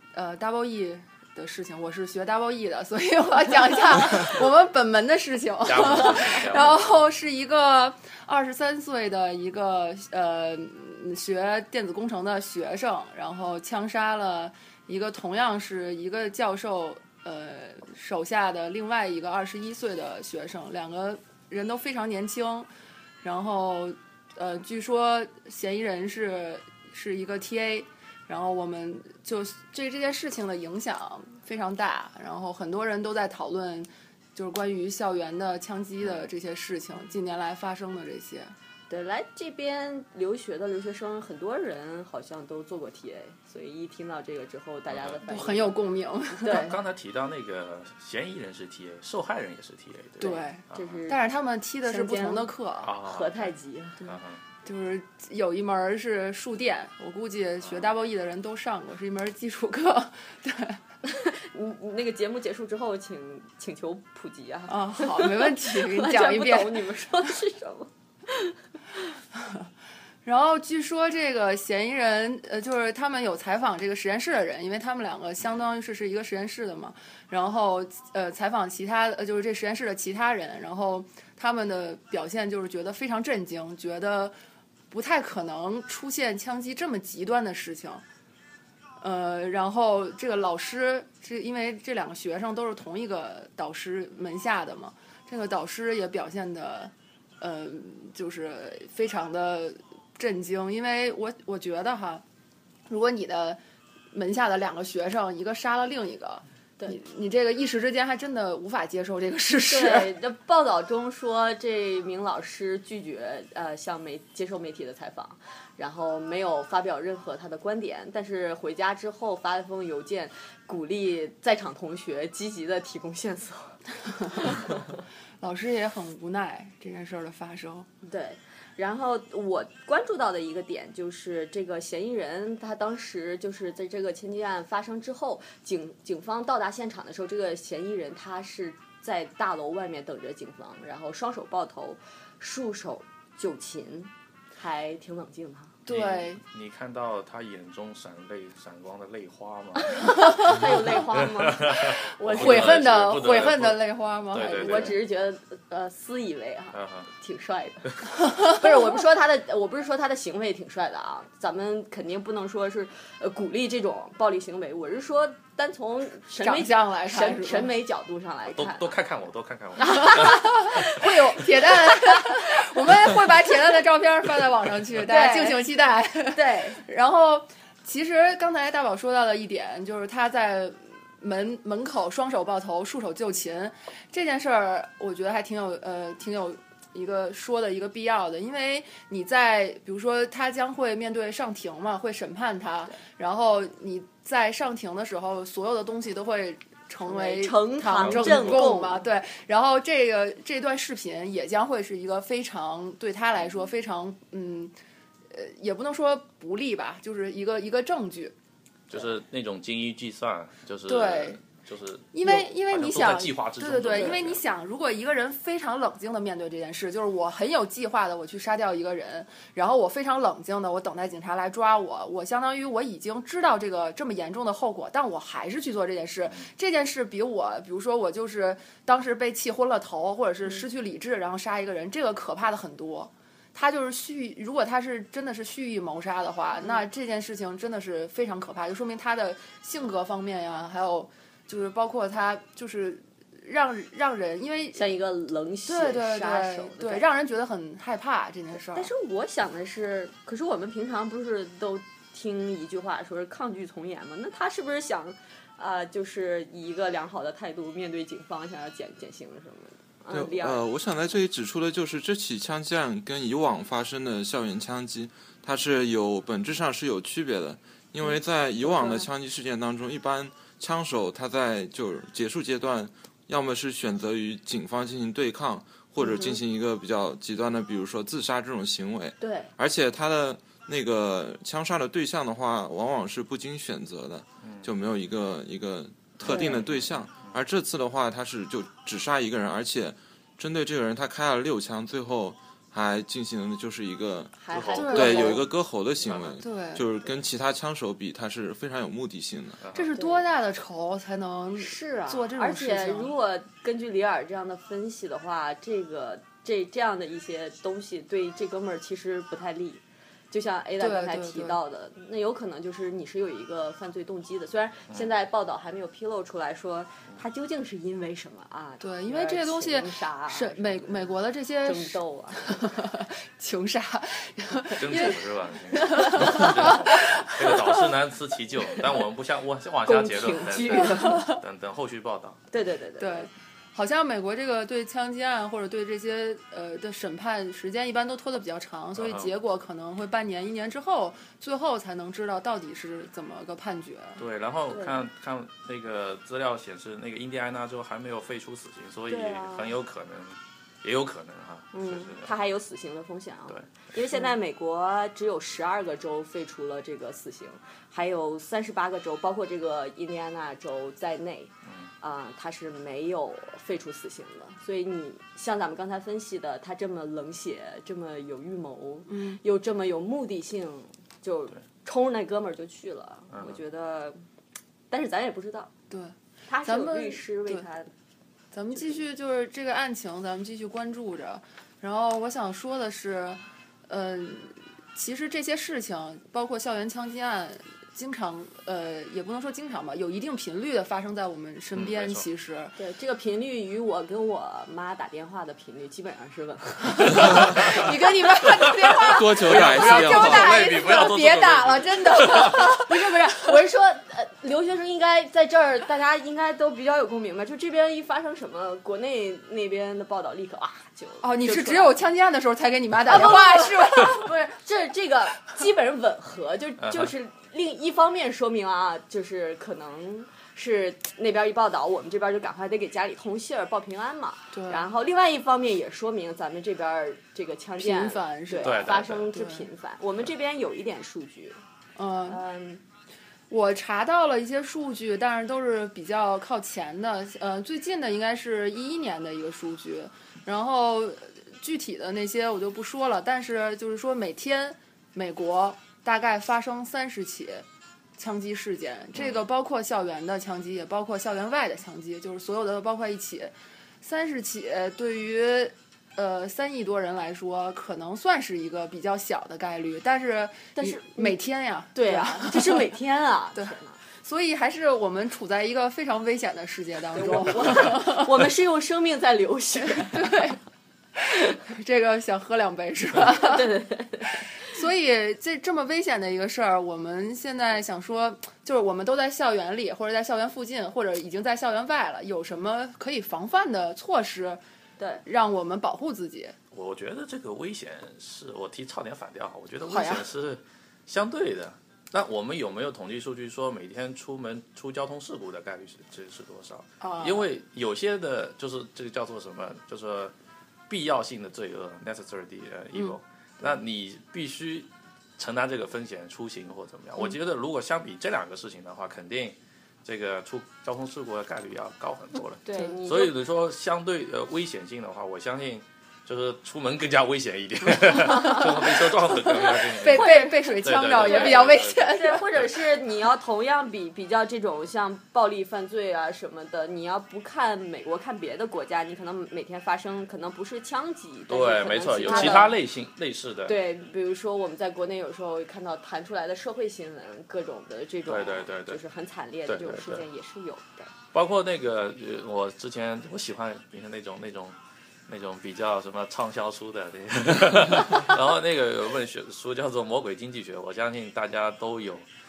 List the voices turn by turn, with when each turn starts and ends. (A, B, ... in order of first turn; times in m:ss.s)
0:00.1-0:22.7 A
0:05.6-0:07.0 B
0:23.2-0:38.5 A
0:36.0-0:36.3 B
0:38.9-0:45.8 C
0:44.9-0:45.2 B
0:45.2-0:46.8 A
0:46.4-0:46.7 C
0:46.4-0:51.0 B
0:50.2-0:52.9 A
0:50.7-0:51.2 C
0:51.8-0:54.2 C
0:52.8-0:54.4 B
0:54.6-1:00.8 A
0:57.6-0:57.9 B
1:01.0-1:09.0 C
1:04.7-1:06.9 A
1:09.4-1:09.6 A
1:10.2-1:24.3 A
1:24.9-1:28.0 A
1:29.0-1:42.2 A
1:42.9-1:43.6 A
1:44.1-1:50.1 A
1:49.6-2:03.8 C
2:04.2-2:04.7 A
2:04.4-2:04.8 C
2:05.4-2:07.9 A
2:08.0-2:25.8 C
2:25.8-2:26.4 A
2:25.9-2:30.5 B
2:29.8-2:32.8 C
2:30.2-2:30.6 A
2:31.1-2:35.0 B
2:32.2-2:35.0 A
2:34.6-2:49.0 C
2:36.7-2:37.1 B
2:46.4-2:47.7 A
2:48.5-2:50.9 B
2:49.8-2:51.2 C
2:50.0-3:24.7 A
2:51.9-2:52.8 C
2:55.0-2:55.6 C
2:56.3-2:56.8 C
3:17.0-3:19.0 C
3:18.0-3:18.7 B
3:23.4-3:23.7 B
3:25.3-3:28.3 A
3:28.9-3:34.4 B
3:30.9-3:31.4 A
3:32.1-4:04.8 A
3:33.9-3:34.2 C
4:04.7-4:07.1 C
4:05.7-4:08.9 A
4:08.6-4:20.6 C
4:20.1-4:59.6 D
4:28.7-4:29.0 C
4:36.0-4:36.3 C
4:39.2-4:39.5 C
4:44.4-4:44.7 B
4:46.2-4:46.6 C
4:46.4-4:47.4 B
4:54.4-4:55.4 C
4:54.5-4:55.2 B
4:54.7-4:55.4 A
4:56.0-4:56.3 B
4:56.4-4:56.8 A
4:59.6-4:59.9 B
4:59.7-5:03.1 A
4:59.9-5:00.2 C
5:01.6-5:22.6 C
5:10.8-5:11.6 A
5:18.8-5:27.9 A
5:24.8-5:32.5 B
5:26.2-5:26.5 C
5:29.8-5:31.3 C
5:30.9-5:31.4 A
5:32.5-5:33.3 C
5:33.0-5:44.2 A
5:39.0-5:39.3 B
5:44.2-5:52.3 B
5:44.7-5:45.0 C
5:49.1-5:49.7 C
5:51.7-6:14.2 C
5:53.5-5:53.9 B
6:09.1-6:09.4 A
6:13.3-6:13.6 B
6:14.9-6:15.7 C
6:15.9-6:17.6 A
6:16.5-6:17.9 C
6:18.5-6:32.7 A
6:31.7-6:32.2 B
6:32.8-6:38.5 C
6:37.0-6:42.9 A
6:39.0-6:40.6 D
6:39.0-6:42.8 B
6:42.3-6:52.0 C
6:51.2-6:54.3 A
6:53.0-7:11.6 C
6:56.8-6:57.1 B
7:04.5-7:04.8 A
7:07.8-7:09.7 A
7:08.6-7:09.3 B
7:12.0-7:12.4 A
7:12.2-7:12.8 C
7:13.5-7:27.6 A
7:28.2-7:42.9 A
7:29.2-7:29.4 B
7:40.8-7:41.4 C
7:41.9-7:44.0 C
7:43.5-7:48.5 A
7:47.1-7:50.5 C
7:49.8-7:50.6 A
7:51.5-7:53.7 A
7:53.3-7:54.5 C
7:54.6-8:04.6 A
8:05.0-8:05.2 C
8:05.2-8:06.5 A
8:06.7-8:20.3 B
8:09.9-8:10.3 A
8:17.0-8:17.5 A
8:20.9-8:42.6 B
8:32.6-8:33.3 C
8:38.2-8:38.6 C
8:38.2-8:42.5 A
8:40.1-8:52.8 C
8:51.5-8:53.8 B
8:52.2-8:52.7 A
8:53.7-9:01.1 C
8:58.3-8:59.0 B
8:59.7-9:00.2 B
9:01.3-9:04.8 B
9:05.3-9:12.2 B